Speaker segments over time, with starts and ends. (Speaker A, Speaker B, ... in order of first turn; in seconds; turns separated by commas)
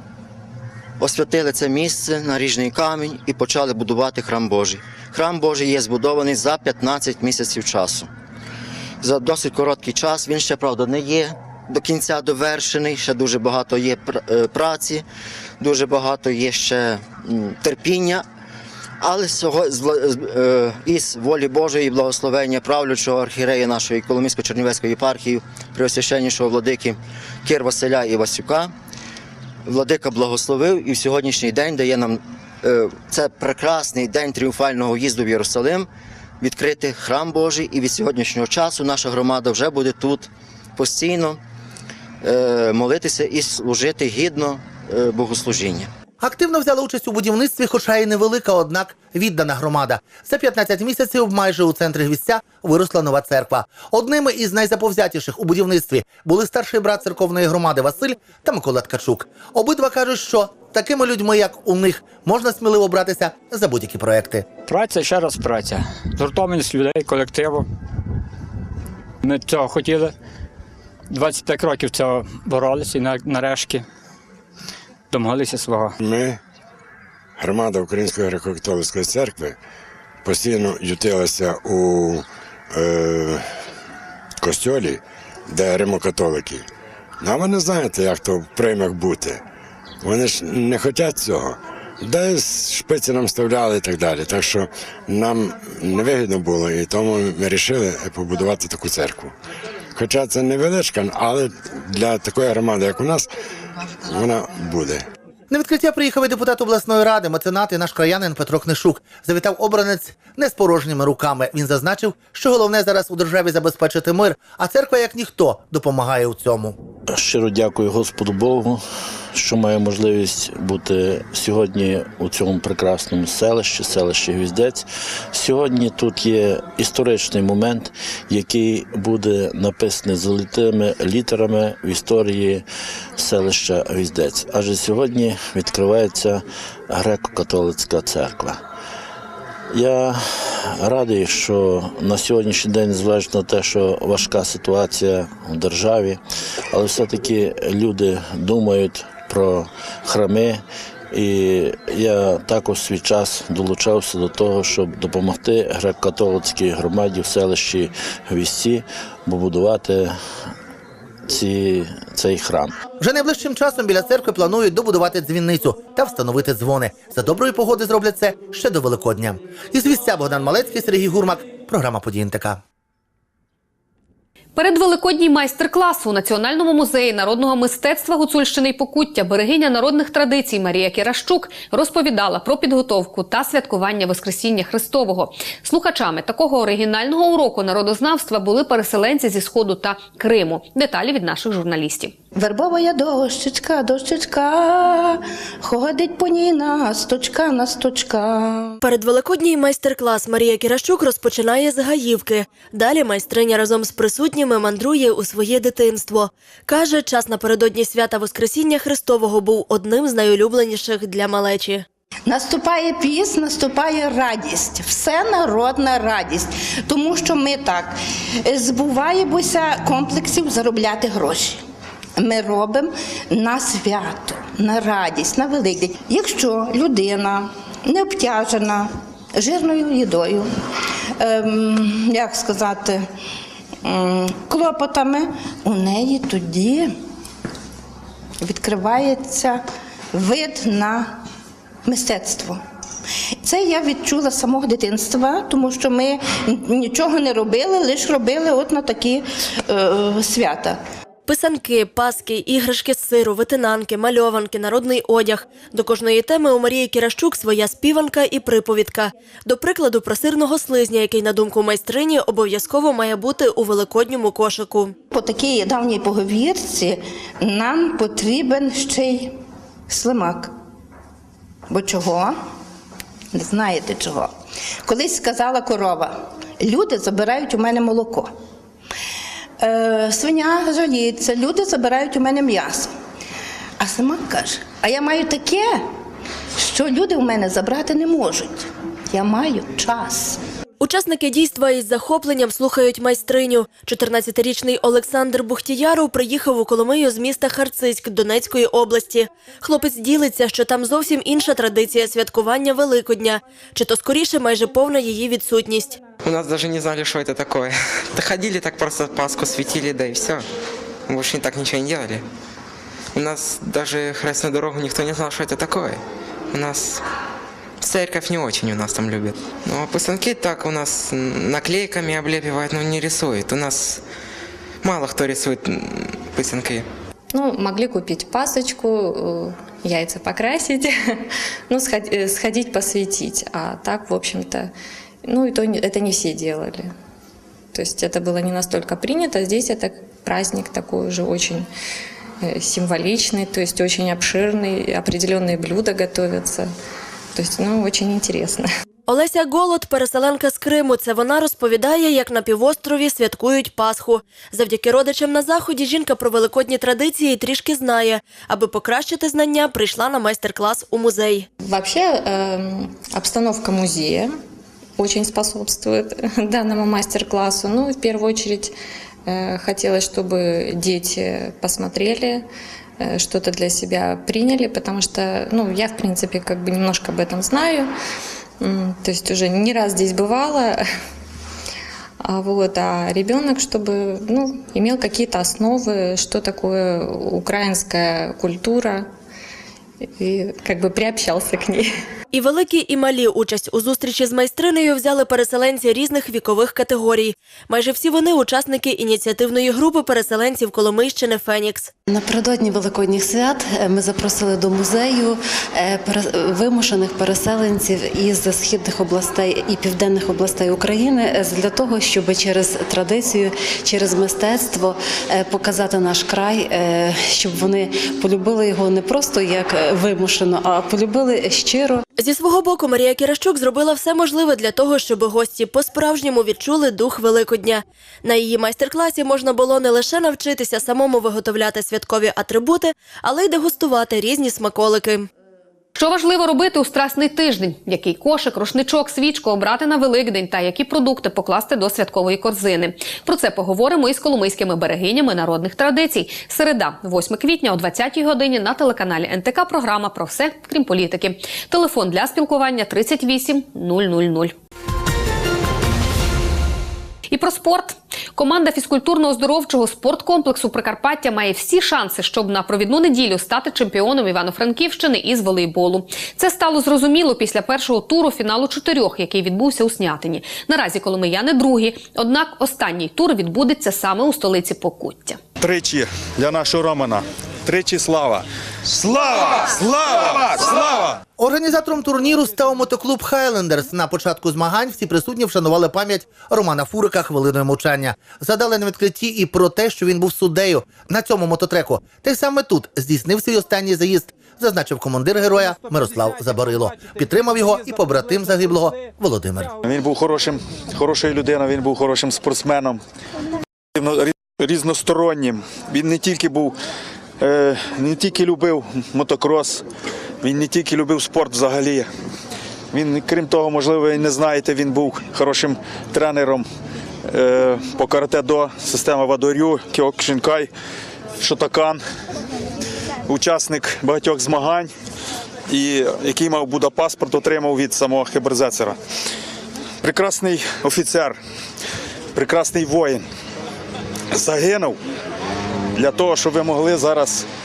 Speaker A: 1.0-8.1, Speaker A: 9.0-15.0, Speaker A: 15.6-18.2, Speaker A: 19.0-28.7, Speaker A: 29.7-35.9, Speaker A: 36.4-41.4, Speaker A: 42.2-45.9, Speaker B: 46.2-64.5, Speaker C: 64.7-67.6, Speaker C: 69.2-70.1, Speaker C: 71.1-73.8, Speaker C: 75.1-75.9, Speaker D: 76.0-76.4, Speaker D: 77.4-79.5, Speaker D: 80.2-83.4, Speaker D: 84.4-86.6, Speaker D: 87.2-89.4, Speaker D: 90.0-99.3, Speaker D: 100.0-103.3, Speaker D: 104.0-105.0, Speaker B: 105.5-116.7, Speaker E: 117.1-118.8, Speaker E: 119.3-132.6, Speaker E: 133.2-138.6, Speaker E: 139.7-146.2, Speaker E: 146.7-160.2, Speaker E: 161.3-162.7, Speaker B: 163.0-172.6, Speaker F: 174.6-192.1, Speaker G: 192.3-198.8, Speaker H: 198.8-211.8, Speaker G: 212.2-221.6, Speaker G: 222.2-230.5, Speaker G: 231.2-233.1, Speaker G: 233.8-236.9, Speaker G: 238.4-239.6, Speaker G: 240.1-241.2, Speaker G: 241.8-242.6, Speaker G: 243.4-250.8, Speaker H: 251.3-264.9, Speaker G: 265.1-269.3, Speaker G: 269.9-270.5, Speaker G: 271.7-272.4, Speaker G: 273.3-274.3, Speaker G: 274.8-278.3, Speaker G: 279.6-282.9, Speaker G: 283.8-285.8, Speaker G: 286.6-290.4, Speaker H: 290.8-306.0, Speaker I: 306.2-310.4, Speaker I: 311.1-312.2, Speaker I: 313.1-316.0, Speaker I: 316.5-317.0, Speaker I: 317.8-324.0, Speaker I: 324.8-326.9, Speaker J: 327.3-331.2, Speaker J: 331.7-334.7, Speaker J: 335.2-336.9, Speaker J: 337.7-341.7, Speaker J: 342.4-346.7, Speaker J: 347.3-348.7, Speaker H: 349.1-361.5, Speaker J: 361.6-364.3, Speaker J: 365.0-368.7, Speaker J: 369.2-372.5, Speaker J: 373.0-377.9, Speaker J: 378.6-380.8, Speaker J: 382.2-389.1, Speaker J: 390.2-391.9, Speaker H: 392.3-401.9, Speaker K: 402.1-422.0, Speaker H: 422.2-435.3, Speaker F: 435.9-454.5, Speaker F: 457.3-475.4, Speaker L: 475.6-478.4, Speaker L: 479.4-481.1, Speaker B: 481.4-499.7, Speaker L: 499.8-503.0, Speaker L: 503.9-506.8, Speaker L: 507.4-509.8, Speaker L: 510.4-512.1, Speaker L: 512.9-516.6, Speaker L: 517.3-520.7, Speaker L: 521.4-522.0, Speaker L: 523.3-524.9, Speaker L: 525.7-529.0, Speaker L: 530.0-531.4, Speaker L: 532.3-533.2, Speaker L: 534.3-535.0, Speaker L: 536.0-537.5